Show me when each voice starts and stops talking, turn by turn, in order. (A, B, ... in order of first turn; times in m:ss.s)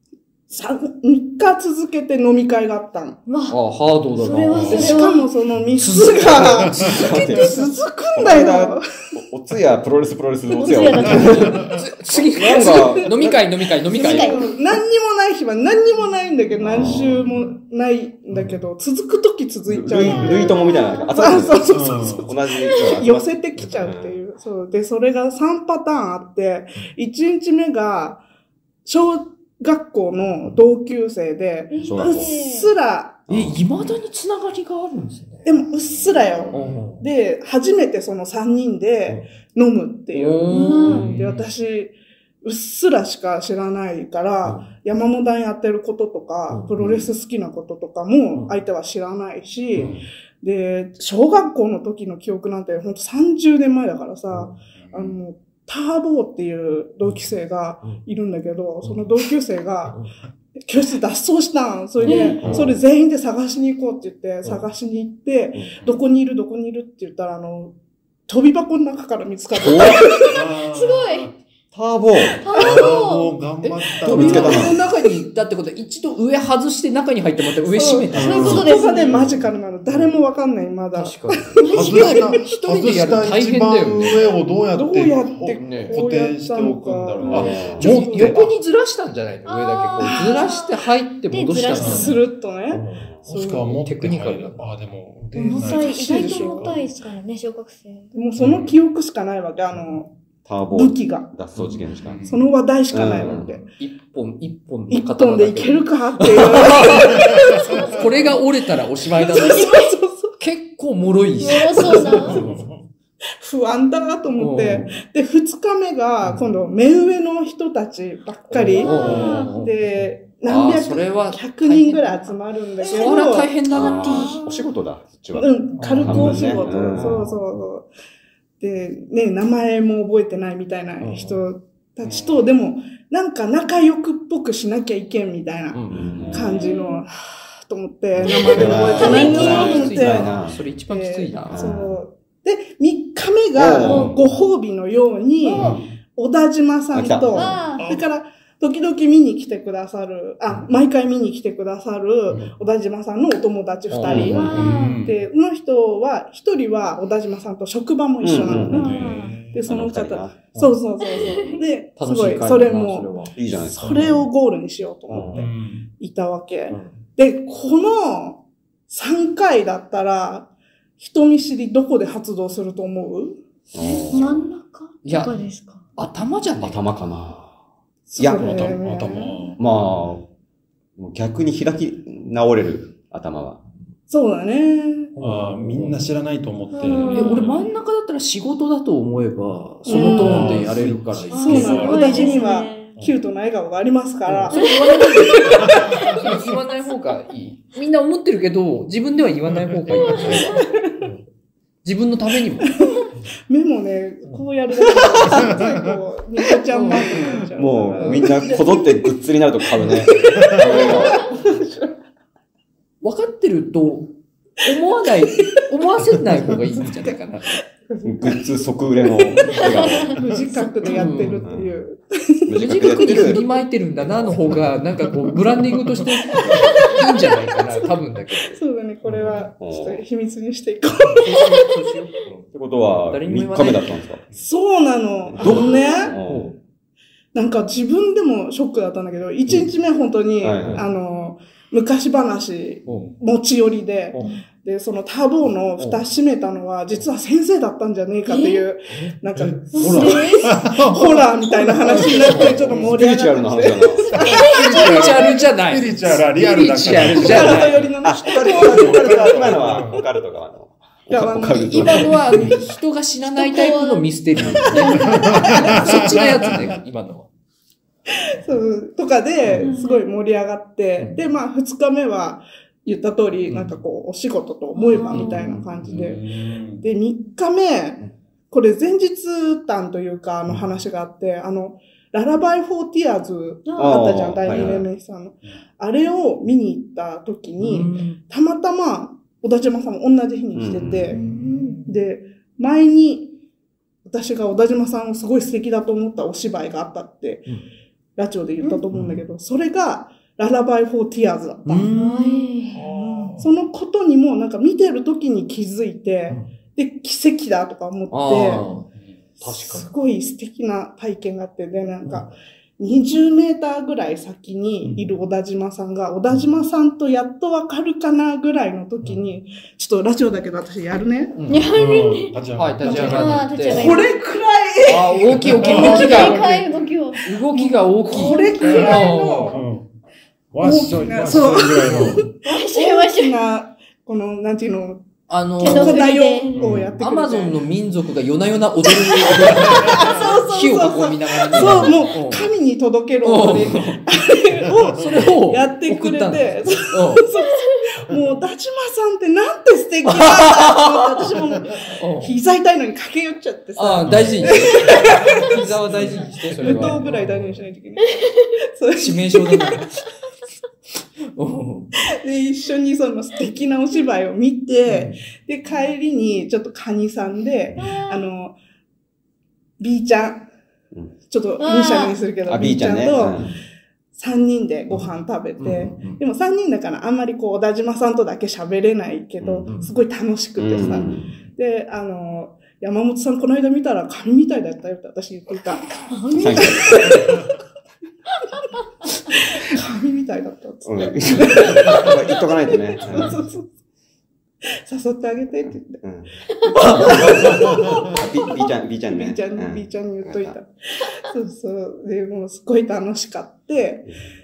0:00.5-0:03.2 A
0:03.3-0:03.6 B
0:03.5-0:05.0 C
0:04.2-0:05.3 B
0:04.5-0:05.0 D
0:04.6-0:09.1 A
0:05.8-0:07.5 C
0:06.8-0:13.4 E
0:10.5-0:11.7 B
0:11.0-0:11.8 D
0:11.7-0:14.4 C
0:12.5-0:13.1 A
0:13.9-0:28.2 A
0:13.9-0:14.5 B
0:16.6-0:17.2 E
0:19.7-0:24.2 E
0:20.0-0:20.5 D
0:20.5-0:21.0 B
0:21.7-0:22.3 D
0:28.8-0:33.2 A
0:31.7-0:32.7 B
0:31.8-0:32.4 E
0:33.3-0:33.6 E
0:33.3-0:35.5 C
0:35.4-1:07.7 A
0:35.8-0:36.8 D
0:36.5-0:37.0 C
0:40.1-0:41.2 C
0:40.5-0:41.1 B
0:40.9-0:41.5 D
0:44.4-0:44.7 C
0:46.5-0:47.1 C
0:49.7-0:50.1 D
0:54.8-0:55.2 D
1:02.0-1:02.7 C
1:02.0-1:02.4 B
1:02.4-1:02.7 E
1:02.4-1:02.8 D
1:08.3-1:10.4 A
1:09.6-1:10.0 E
1:10.3-1:11.4 D
1:10.6-1:11.3 B
1:11.7-1:12.4 E
1:12.4-1:13.3 B
1:12.5-1:12.9 A
1:12.5-1:14.8 D
1:13.6-1:20.2 C
1:14.0-1:14.9 A
1:14.1-1:14.8 E
1:17.6-1:22.4 A
1:18.1-1:18.7 D
1:18.2-1:19.2 B
1:20.9-1:24.2 C
1:21.6-1:22.1 B
1:21.6-1:28.5 D
1:24.7-1:28.5 A
1:25.6-1:26.0 C
1:27.3-1:34.7 C
1:27.3-1:27.8 E
1:29.4-1:30.8 B
1:30.0-1:30.5 A
1:31.3-1:32.2 B
1:31.7-1:33.8 A
1:31.7-1:32.1 D
1:33.2-1:36.9 D
1:35.3-1:38.1 B
1:35.4-1:36.7 A
1:38.1-1:40.1 A
1:38.4-1:38.8 D
1:40.4-1:42.2 E
1:40.7-1:41.3 A
1:41.6-1:41.8 C
1:42.0-1:42.5 D
1:42.2-1:43.6 A
1:42.9-1:43.5 E
1:43.2-1:49.7 C
1:44.9-1:48.3 A
1:47.2-1:47.8 D
1:47.6-1:47.9 B
1:49.1-1:50.4 A
1:49.3-1:49.9 B
1:50.4-1:52.5 C
1:51.4-1:52.4 B
1:51.9-1:52.4 A
1:52.1-1:52.8 D
1:53.4-2:03.6 A
1:54.4-1:55.0 C
1:56.2-1:56.5 C
1:58.5-2:04.4 C
1:58.8-1:59.5 B
1:58.9-1:59.4 D
2:02.8-2:03.2 B
2:03.7-2:07.2 E
2:03.7-2:04.5 B
2:05.3-2:07.9 A
2:05.8-2:07.4 C
2:08.6-2:53.4 A
2:11.0-2:11.4 C
2:12.0-2:12.5 D
2:15.7-2:16.5 C
2:15.9-2:16.6 E
2:16.5-2:17.0 B
2:18.1-2:20.6 E
2:18.3-2:19.8 B
2:18.6-2:21.7 C
2:21.5-2:22.0 E
2:23.5-2:24.3 E
2:23.8-2:24.1 B
2:25.4-2:25.8 B
2:25.6-2:25.8 E
2:26.9-2:27.6 E
2:27.3-2:27.8 B
2:27.8-2:28.0 D
2:33.9-2:34.5 C
2:34.0-2:34.6 E
2:34.2-2:35.0 B
2:34.4-2:35.2 D
2:38.2-2:39.1 E
2:38.7-2:39.6 D
2:38.7-2:39.4 B
2:39.6-2:40.4 E
2:41.0-2:41.6 B
2:42.0-2:44.3 C
2:43.4-2:44.1 E
2:45.3-2:45.9 D
2:46.7-2:47.0 C
2:53.7-2:54.4 E
2:53.8-2:55.8 B
2:55.0-2:55.3 C
2:56.0-2:56.9 C
2:56.6-2:57.5 E
2:58.1-2:59.5 A
2:58.2-2:58.6 E
2:58.4-2:59.6 D
2:59.6-3:00.2 E
3:01.0-3:03.6 E
3:04.1-3:05.1 A
3:05.2-3:06.0 C
3:05.2-3:07.4 D
3:06.7-3:07.5 B
3:07.1-3:12.4 C
3:07.2-3:07.5 A
3:09.8-3:10.6 A
3:09.9-3:12.4 D
3:11.3-3:12.9 B
3:11.3-3:16.2 A
3:14.2-3:21.2 C
3:14.6-3:16.4 B
3:15.7-3:16.2 D
3:19.5-3:20.4 D
3:19.9-3:20.6 B
3:20.6-3:21.0 A
3:21.8-3:22.7 C
3:22.6-3:28.8 A
3:25.2-3:25.5 C
3:25.3-3:25.9 D
3:26.7-3:27.4 C
3:27.6-3:31.3 E
3:28.0-3:28.3 C
3:29.8-3:32.0 A
3:33.0-3:37.6 C
3:35.3-3:35.6 A
3:36.8-3:37.1 A
3:37.7-3:38.4 A
3:38.0-3:40.2 E
3:39.0-3:43.1 A
3:40.8-3:41.5 C
3:41.4-3:41.8 E
3:42.5-3:43.4 E
3:42.5-3:49.4 C
3:44.0-3:44.7 E
3:45.7-3:46.0 D
3:46.5-3:47.0 A
3:47.6-3:51.6 A
3:49.6-3:50.0 E
3:51.2-3:52.5 C
3:52.5-3:54.3 E
3:53.1-3:54.0 C
3:54.3-3:56.2 A
3:55.3-3:56.5 E
3:55.4-3:56.6 C
3:55.7-3:56.1 B
3:57.3-4:15.0 A
4:00.4-4:00.8 E
4:00.6-4:00.8 C
4:02.8-4:03.2 C
4:05.8-4:06.0 C
4:08.2-4:08.6 B
4:08.9-4:09.2 C
4:09.4-4:12.8 D
4:09.7-4:10.5 B
4:12.0-4:13.0 C
4:12.6-4:14.2 E
4:14.1-4:15.0 B
4:14.2-4:17.9 D
4:14.3-4:17.9 C
4:17.1-4:20.0 A
4:18.0-4:22.3 E
4:18.7-4:20.0 D
4:21.1-4:22.5 A
4:21.6-4:27.3 C
4:23.3-4:24.1 B
4:24.6-4:26.0 A
4:24.6-4:25.7 B
4:24.9-4:26.7 D
4:28.1-4:36.2 A
4:29.4-4:29.7 D
4:29.6-4:30.0 B
4:33.5-4:33.8 C
4:34.7-4:35.5 B
4:35.1-4:35.4 C
4:35.1-4:36.8 D
4:36.8-4:51.2 A
4:43.6-4:44.0 B
4:43.8-4:44.8 E
4:44.5-4:44.8 C
4:47.6-4:48.2 C
4:50.5-4:51.2 E
4:51.1-4:51.8 B
4:51.8-4:53.4 A
4:54.0-4:57.6 A
4:58.2-5:08.7 A
4:58.9-4:59.2 C
5:01.6-5:02.4 C
5:01.9-5:02.8 B
5:02.7-5:03.5 D
5:08.1-5:08.9 C
5:09.4-5:09.9 C
5:09.4-5:21.4 A
5:21.4-5:21.6 C
5:21.5-5:22.3 B
5:21.7-5:23.4 D
5:22.6-5:24.0 C
5:22.8-5:24.2 B
5:22.8-5:26.4 A
5:24.8-5:26.7 C
5:25.4-5:26.3 D
5:25.6-5:27.3 B
5:27.2-5:29.6 C
5:27.5-5:29.6 A
5:28.1-5:29.0 B
5:28.6-5:29.9 D
5:30.5-5:32.3 D
5:30.6-5:37.6 A
5:32.4-5:33.4 B
5:35.3-5:42.5 C
5:35.6-5:36.6 B
5:36.6-5:36.9 D
5:38.8-5:59.8 A
5:39.7-5:40.2 D
5:41.6-5:41.8 D
5:43.2-5:44.0 C
5:44.8-5:45.1 D
5:44.9-5:47.3 C
5:50.0-5:51.3 C
5:52.0-5:52.4 C
5:53.8-5:57.5 C
5:54.0-5:54.4 D
5:56.7-5:57.3 D
5:58.0-5:58.5 B
5:59.0-6:00.0 C
6:01.3-6:01.9 C
6:02.0-6:08.6 A
6:04.8-6:05.2 C
6:07.8-6:08.2 B
6:09.8-6:10.5 A
6:11.3-6:13.4 A
6:11.6-6:12.2 B
6:12.4-6:13.5 E
6:14.1-6:27.6 A
6:15.6-6:16.2 C
6:19.4-6:19.7 E
6:19.6-6:19.9 C
6:20.6-6:21.3 E
6:26.1-6:26.6 B
6:26.3-6:27.1 E
6:29.3-6:33.6 A
6:30.8-6:33.4 E
6:34.8-6:36.0 A
6:36.0-6:36.3 E
6:36.7-6:37.6 C
6:36.8-6:38.2 A
6:37.0-6:40.6 E
6:39.1-6:44.1 A